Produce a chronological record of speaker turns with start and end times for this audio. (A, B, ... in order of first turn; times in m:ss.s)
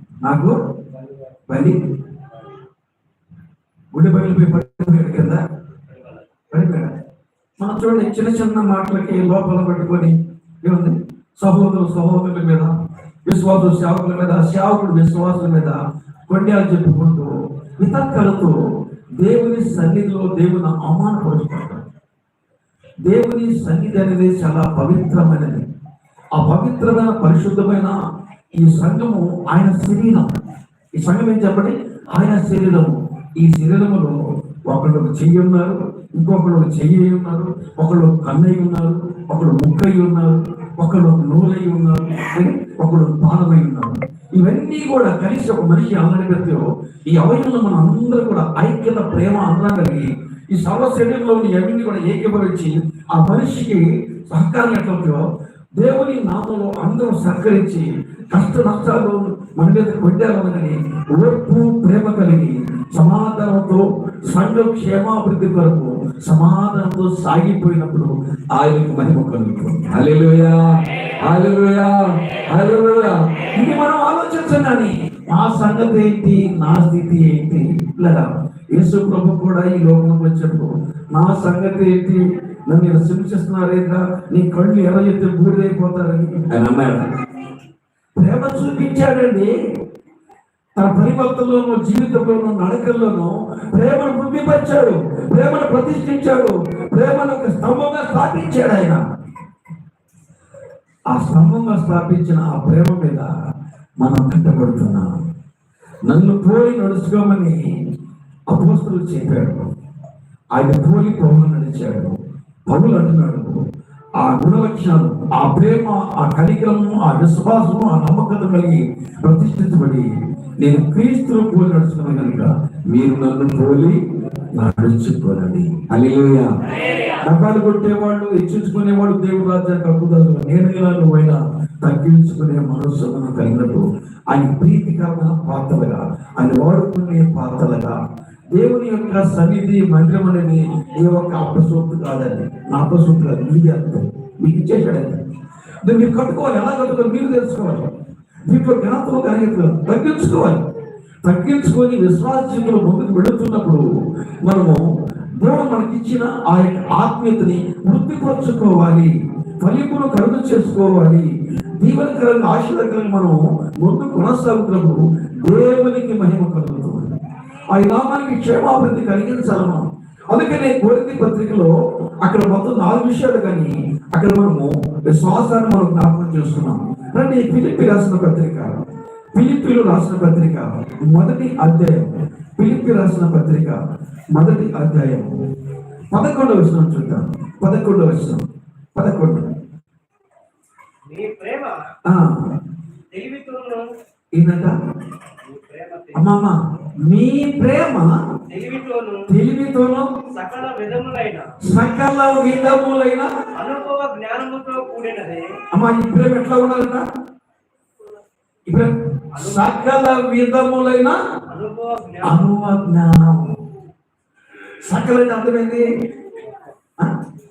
0:00.2-0:00.6 A
0:00.9-0:01.2 B
0:01.5-0:01.8 A
0:03.9-0:05.4 A
0:05.9-0:06.2 B
0:06.5-0:06.9 A
0:07.6-0:12.7 A
0:13.3-0:18.6 A
0:19.2-0:21.8 A
0:23.1-0:25.6 A
0:26.3-0:28.0 A
0:28.6-0:30.4 A
0:31.0-0:34.2 A
0:34.7-0:55.2 A
0:55.8-1:27.1 A
1:28.2-1:29.5 A
1:30.8-1:39.0 A
1:41.1-1:43.3 A
1:44.0-1:45.1 A
1:46.1-1:47.6 A
1:48.5-1:49.7 A
1:50.6-1:53.6 A
1:54.2-2:00.1 A
2:00.6-2:04.0 A
2:04.5-2:06.5 A
2:07.1-2:18.0 A
2:18.5-2:25.2 A
2:25.8-2:27.9 A
2:28.5-2:30.6 A
2:31.2-2:33.8 A
2:34.4-2:34.9 A
2:35.4-2:41.3 A
2:41.8-2:47.2 A
2:47.7-2:58.8 A
2:59.4-3:03.8 A
3:04.3-3:05.4 A
3:06.1-3:08.4 A
3:09.0-3:09.5 A
3:11.1-3:11.8 B
3:12.1-3:12.5 A
3:13.1-3:13.9 B
3:14.3-3:14.7 A
3:15.4-3:16.4 B
3:16.2-3:18.1 A
3:18.5-3:19.3 B
3:19.3-3:20.1 A
3:20.3-3:21.5 B
3:21.6-3:23.3 A
3:23.6-3:25.5 B
3:25.7-3:27.1 A
3:28.7-3:31.2 A
3:29.3-3:29.8 B
3:31.5-3:32.5 B
3:32.2-3:33.5 A
3:34.8-3:35.8 A